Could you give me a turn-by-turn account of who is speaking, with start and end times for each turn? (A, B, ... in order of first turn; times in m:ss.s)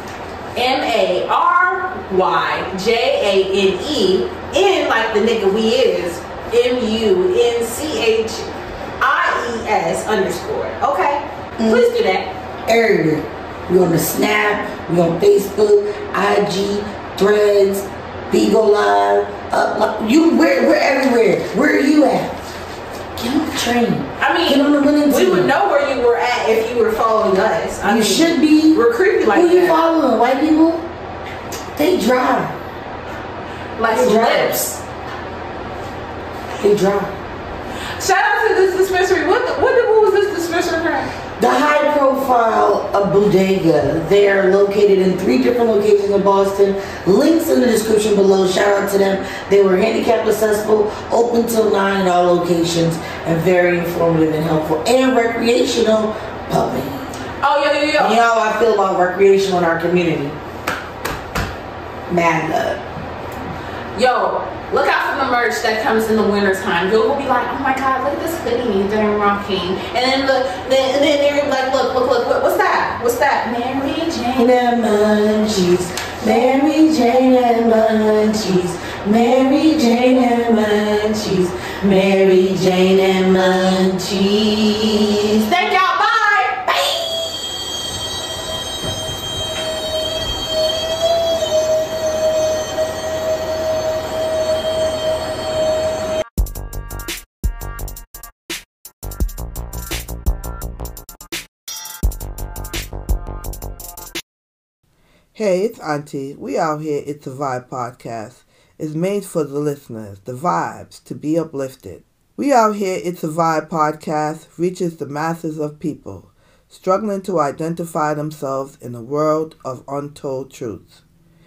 0:00.5-0:08.5 A
0:09.0-0:12.3 A
0:11.6-0:11.9 B
0:12.6-0:22.4 B
0:23.2-0:25.5 B
0:24.2-0:29.8 A
0:27.8-0:28.8 B
0:29.3-0:30.8 B
0:31.8-0:32.6 B
0:33.8-0:34.8 A
0:33.9-0:34.6 B
0:36.6-0:37.1 B
0:38.0-0:41.1 A
0:41.4-0:57.2 B
0:57.4-0:58.2 A
0:58.0-1:00.4 B
1:02.1-1:02.8 B
1:03.9-1:14.6 A
1:14.4-1:25.4 B
1:25.4-1:26.6 A
1:26.6-1:27.3 B
1:45.3-2:01.0 C